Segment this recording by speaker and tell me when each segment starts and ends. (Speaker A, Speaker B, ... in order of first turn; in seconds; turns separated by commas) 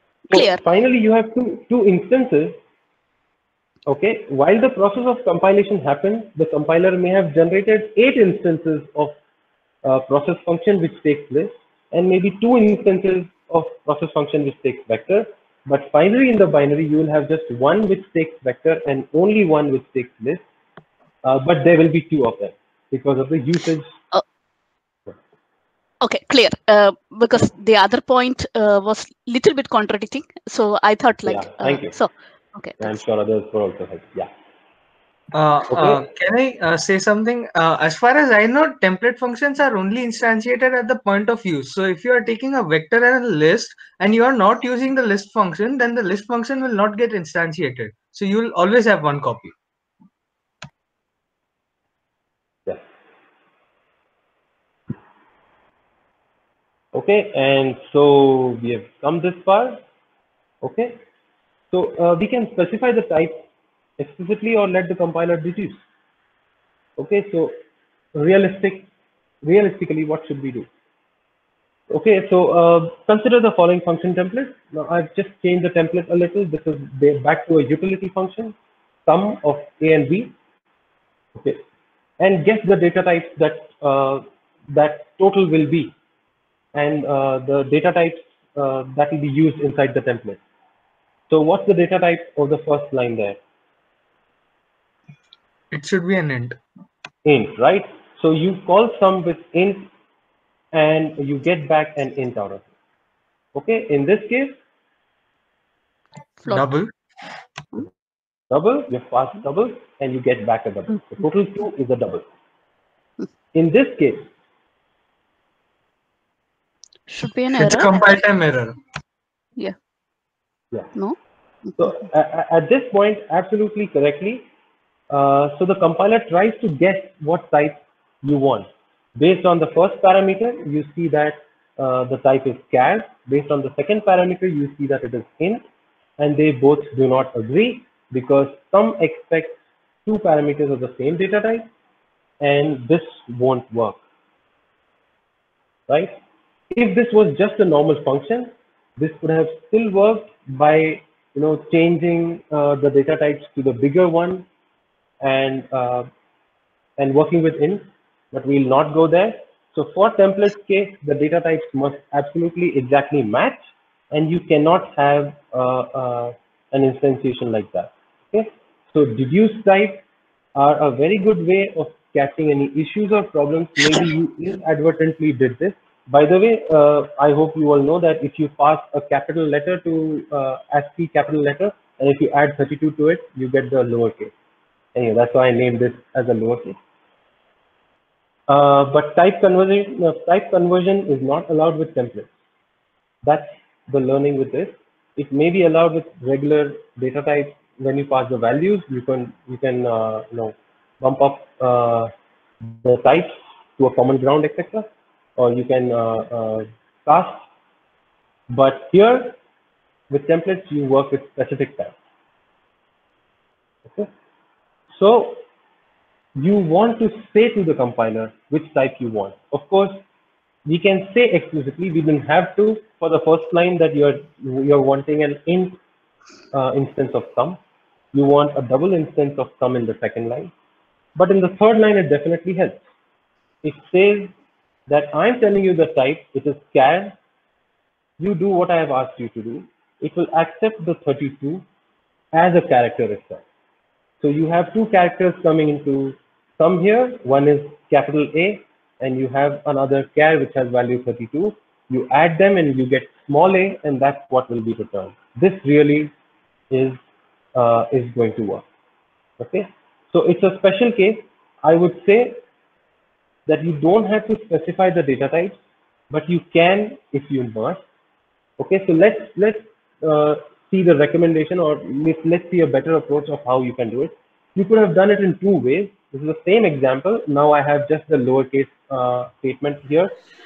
Speaker A: 0.3-0.6, Speaker B: 0.3-2.6, Speaker B: 3.9-9.1, Speaker B: 9.8-20.4, Speaker B: 21.2-23.9, Speaker A: 26.0-33.0, Speaker B: 31.2-31.9, Speaker B: 32.8-34.3, Speaker C: 35.3-49.5, Speaker B: 35.7-36.0, Speaker B: 56.9-59.8, Speaker B: 60.6-61.0, Speaker B: 61.7-63.4, Speaker B: 64.0-65.8, Speaker B: 67.0-67.5, Speaker B: 68.1-68.9, Speaker B: 69.4-70.7, Speaker B: 71.9-80.3, Speaker B: 81.3-81.6, Speaker B: 82.2-85.9, Speaker B: 86.7-90.4, Speaker B: 91.3-93.4, Speaker C: 95.7-96.6, Speaker B: 97.2-99.9, Speaker B: 100.7-102.7, Speaker B: 103.5-104.6, Speaker C: 106.4-106.9, Speaker B: 108.5-112.2, Speaker B: 113.5-114.3, Speaker A: 117.1-118.1, Speaker C: 117.5-118.8, Speaker B: 121.8-124.5, Speaker B: 125.1-135.6, Speaker B: 136.2-141.7, Speaker B: 142.4-144.0, Speaker B: 145.9-146.2, Speaker B: 146.7-154.5, Speaker B: 155.2-156.1, Speaker B: 157.0-170.0, Speaker B: 170.5-184.3, Speaker B: 184.9-186.8, Speaker B: 188.5-192.3, Speaker B: 193.2-202.1, Speaker B: 202.6-207.4, Speaker B: 208.5-209.4, Speaker B: 210.1-211.9, Speaker B: 213.8-214.1, Speaker B: 214.9-215.4, Speaker B: 216.3-220.0, Speaker B: 220.7-225.8, Speaker B: 226.5-227.6, Speaker B: 228.1-230.5, Speaker B: 231.1-232.8, Speaker B: 233.6-234.3, Speaker B: 234.9-237.2, Speaker B: 238.2-241.6, Speaker B: 242.3-243.4, Speaker B: 244.2-256.1, Speaker B: 256.7-257.0, Speaker B: 257.5-258.6, Speaker B: 259.4-262.4, Speaker B: 263.4-265.6, Speaker B: 266.1-267.8, Speaker B: 268.6-280.1